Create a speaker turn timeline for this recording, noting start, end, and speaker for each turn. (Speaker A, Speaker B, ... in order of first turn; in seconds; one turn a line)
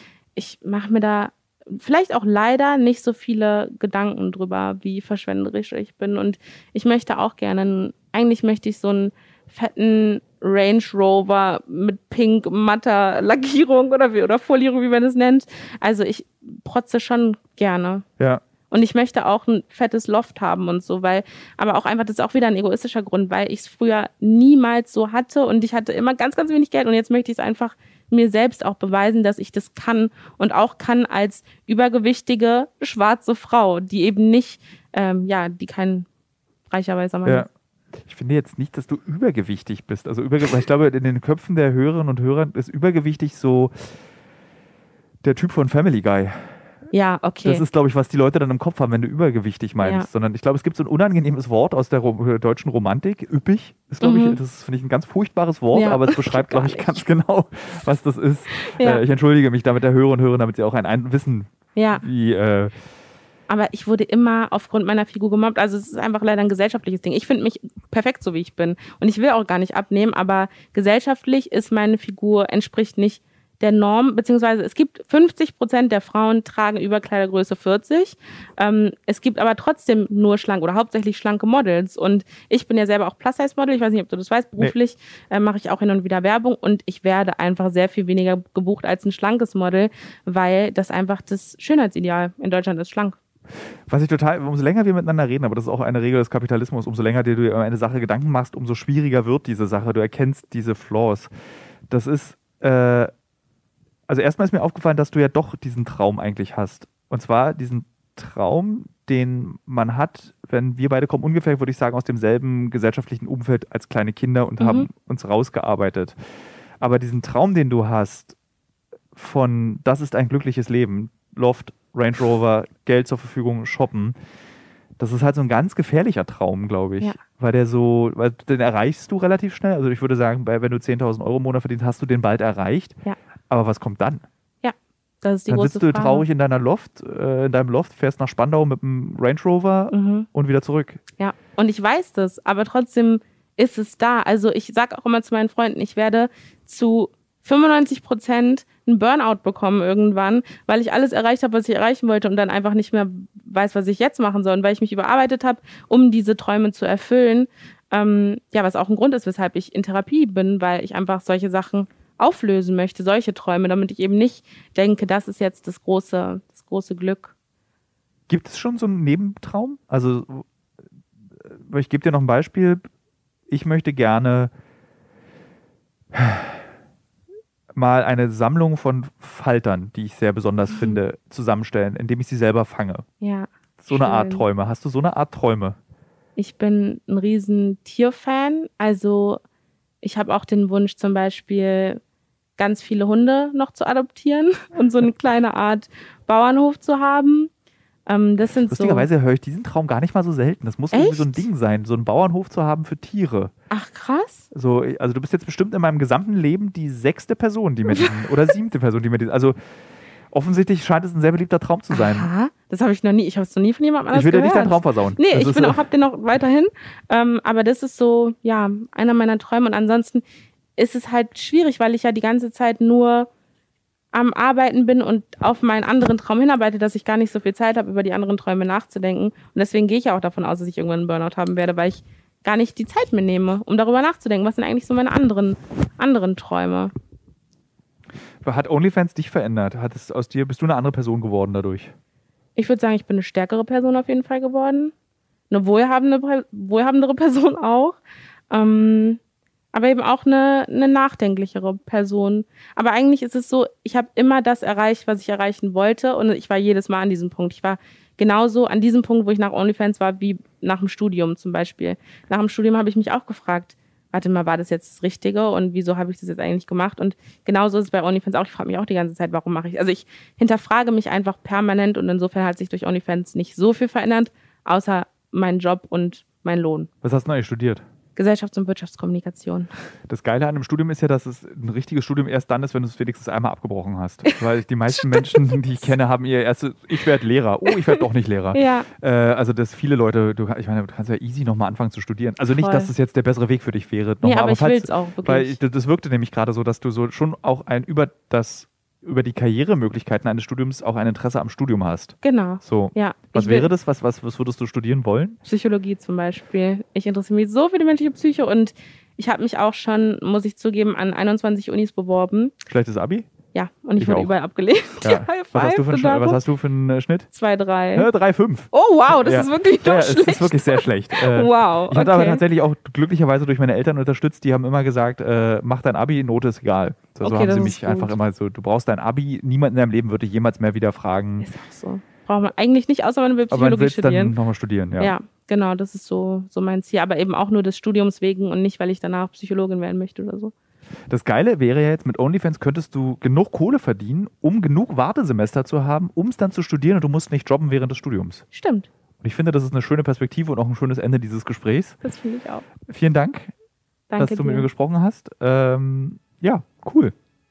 Speaker A: 0.4-18.1
Speaker A: 18.7-36.1
Speaker A: 36.7-37.5
Speaker B: 38.0-44.0
Speaker B: 45.2-46.6
Speaker A: 46.9-47.6
Speaker B: 47.4-62.7
Speaker A: 49.8-50.1
Speaker A: 54.0-54.4
Speaker A: 55.7-57.0
Speaker A: 58.7-59.0
Speaker A: 61.8-62.0
Speaker A: 63.5-93.2
Speaker B: 93.9-101.3
Speaker B: 101.9-103.1
Speaker B: 104.1-116.2
Speaker A: 114.6-114.9
Speaker B: 116.8-118.4
Speaker B: 119.2-124.2
Speaker B: 125.0-133.0
Speaker B: 133.5-134.2
Speaker A: 134.6-136.2
Speaker B: 135.5-141.0
Speaker A: 139.9-140.3
Speaker A: 141.2-167.3
Speaker B: 168.3-170.5
Speaker B: 171.4-172.8
Speaker B: 173.5-174.5
Speaker B: 176.1-176.7
Speaker B: 177.8-183.1
Speaker A: 183.2-184.4
Speaker B: 183.8-185.8
Speaker A: 186.4-189.4
Speaker A: 190.0-192.0
Speaker A: 192.6-197.5
Speaker A: 198.1-199.1
Speaker B: 198.7-203.5
Speaker A: 200.9-201.5
Speaker A: 203.7-204.5
Speaker B: 204.5-209.6
Speaker A: 207.9-208.3
Speaker B: 210.3-212.3
Speaker A: 211.9-220.2
Speaker B: 214.1-215.8
Speaker A: 220.8-223.3
Speaker A: 224.1-236.9
Speaker B: 238.4-241.9
Speaker A: 242.6-244.9
Speaker A: 245.5-248.0
Speaker A: 248.5-249.2
Speaker A: 249.7-276.9
Speaker B: 277.0-277.8
Speaker A: 278.2-279.7
Speaker B: 280.1-305.4
Speaker A: 285.1-285.4
Speaker A: 288.5-288.9
Speaker A: 292.6-292.9
Speaker A: 294.2-295.6
Speaker A: 302.2-303.7
Speaker A: 305.4-312.6
Speaker B: 312.7-313.3
Speaker A: 313.5-316.4
Speaker B: 314.0-314.3
Speaker B: 315.0-317.3
Speaker A: 317.3-318.1
Speaker B: 317.9-331.5
Speaker A: 318.7-322.4
Speaker A: 327.2-328.2
Speaker A: 331.4-334.3
Speaker B: 333.5-335.1
Speaker A: 335.0-340.5
Speaker B: 341.1-348.4
Speaker A: 348.5-348.9
Speaker B: 349.2-352.0
Speaker A: 352.0-352.6
Speaker B: 352.9-353.5
Speaker A: 354.1-354.7
Speaker B: 354.2-357.1